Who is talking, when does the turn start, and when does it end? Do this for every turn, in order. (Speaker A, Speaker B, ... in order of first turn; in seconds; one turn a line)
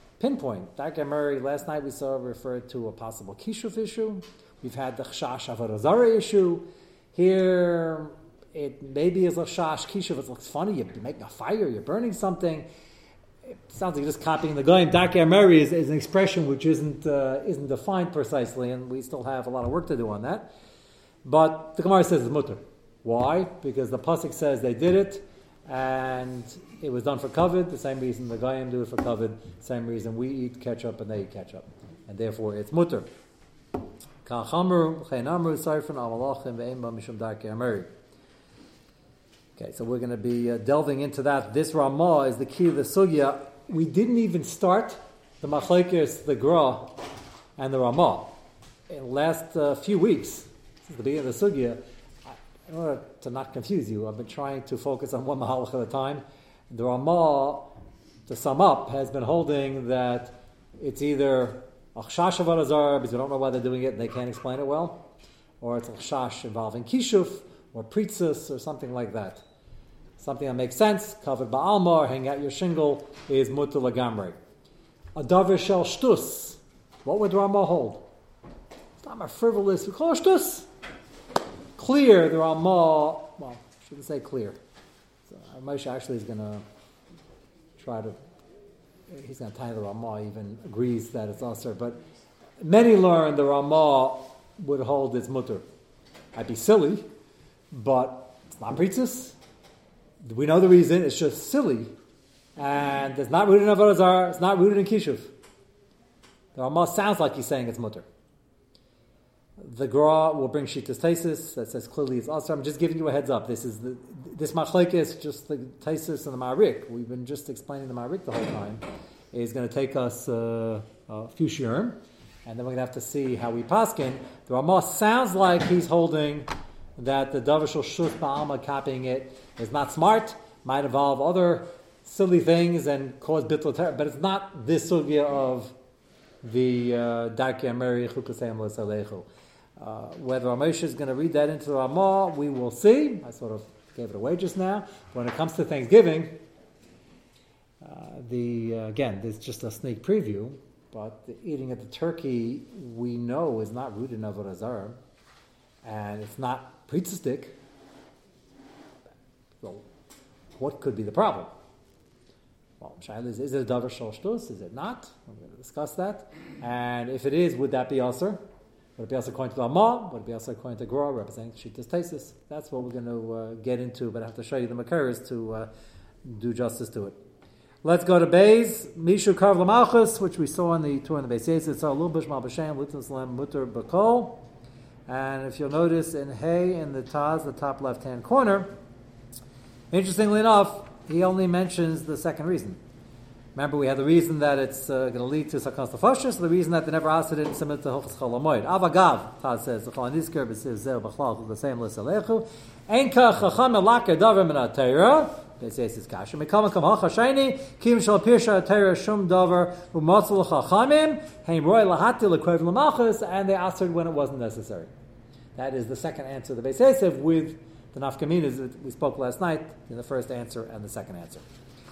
Speaker A: 0.2-12.7
Speaker A: 13.5-20.5
Speaker A: 21.2-33.1
Speaker A: 34.2-37.9
Speaker A: 39.6-47.0
Speaker A: 47.6-48.4
Speaker A: 48.9-57.7
Speaker A: 58.3-65.0
Speaker A: 65.6-69.4
Speaker A: 70.2-74.3
Speaker A: 75.2-78.0
Speaker A: 79.0-80.7
Speaker A: 81.8-84.6
Speaker A: 85.3-86.6
Speaker A: 87.8-88.1
Speaker A: 89.1-92.0
Speaker A: 92.6-95.6
Speaker A: 96.3-97.0
Speaker A: 97.7-99.4
Speaker A: 100.2-101.9
Speaker A: 102.6-105.3
Speaker A: 106.5-108.1
Speaker A: 109.6-135.7
Speaker A: 136.4-139.3
Speaker A: 139.8-146.4
Speaker A: 147.8-154.9
Speaker A: 155.8-157.5
Speaker A: 160.6-161.5
Speaker A: 162.8-168.4
Speaker A: 169.0-175.7
Speaker A: 176.2-177.2
Speaker A: 177.8-184.4
Speaker A: 185.1-188.7
Speaker A: 189.9-192.8
Speaker A: 193.6-214.9
Speaker A: 215.6-221.4